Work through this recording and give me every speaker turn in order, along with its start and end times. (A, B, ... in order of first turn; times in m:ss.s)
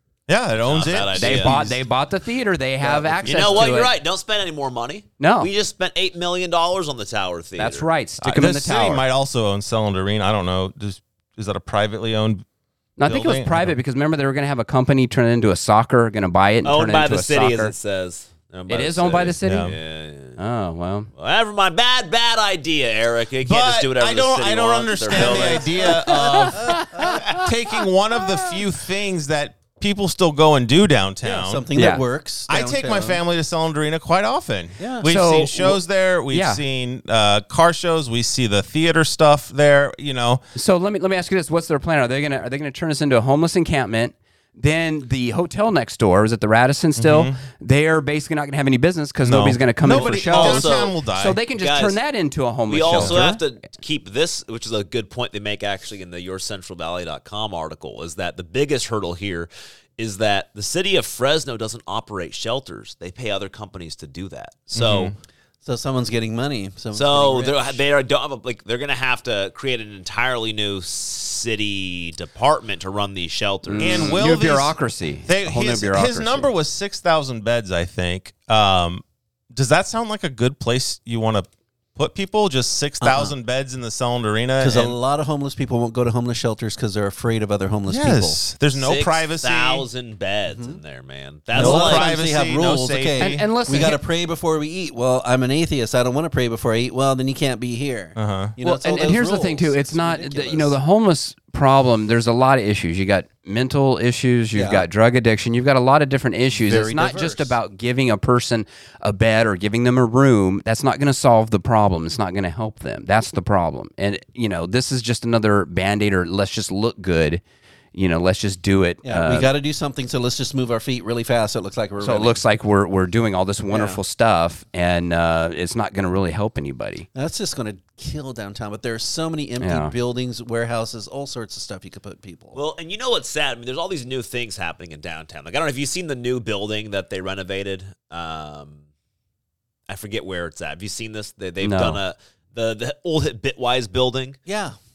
0:00.3-0:01.8 A
0:00.7-0:01.6 B
0:01.1-0:03.9 C
0:02.8-0:03.6 D
0:03.2-0:07.9 B
0:05.2-0:05.5 C
0:07.6-0:09.0 C
0:08.2-0:12.4 A
0:13.0-0:17.7 C
0:13.0-0:13.7 A
0:16.6-0:20.4 B
0:18.7-0:19.8 C
0:19.4-0:19.7 A
0:20.4-0:21.1 C
0:21.2-0:26.0 B
0:23.4-0:31.6 A
0:25.3-0:25.9 D
0:25.8-0:27.5 C
0:26.5-0:27.2 D
0:31.2-0:33.2 D
0:31.7-0:32.0 C
0:32.5-0:40.4 A
0:34.8-0:35.7 D
0:35.0-0:35.7 C
0:36.3-0:36.6 C
0:40.5-0:53.4 C
0:47.0-0:47.4 A
0:49.2-0:51.4 A
0:49.9-0:50.9 B
0:51.6-0:52.0 B
0:52.7-1:05.1 B
1:04.7-1:05.1 A
1:05.6-1:07.8 D
1:06.9-1:14.2 B
1:13.6-1:16.5 C
1:13.8-1:25.0 A
1:23.0-1:23.3 D
1:24.6-1:28.4 D
1:27.9-1:29.8 A
1:28.7-1:32.1 B
1:30.5-1:30.8 D
1:31.5-1:40.8 D
1:31.5-1:33.5 A
1:33.2-1:34.0 C
1:38.2-1:38.6 A
1:38.6-1:57.4 C
1:44.5-1:44.8 D
1:46.5-1:47.6 D
1:57.9-1:59.5 C
1:59.0-2:02.4 D
2:02.0-2:07.1 C
2:03.7-2:04.0 D
2:07.1-2:12.6 D
2:09.6-2:09.9 C
2:12.5-2:18.8 B
2:19.9-2:24.4 B
2:21.6-2:22.0 C
2:24.4-2:24.8 D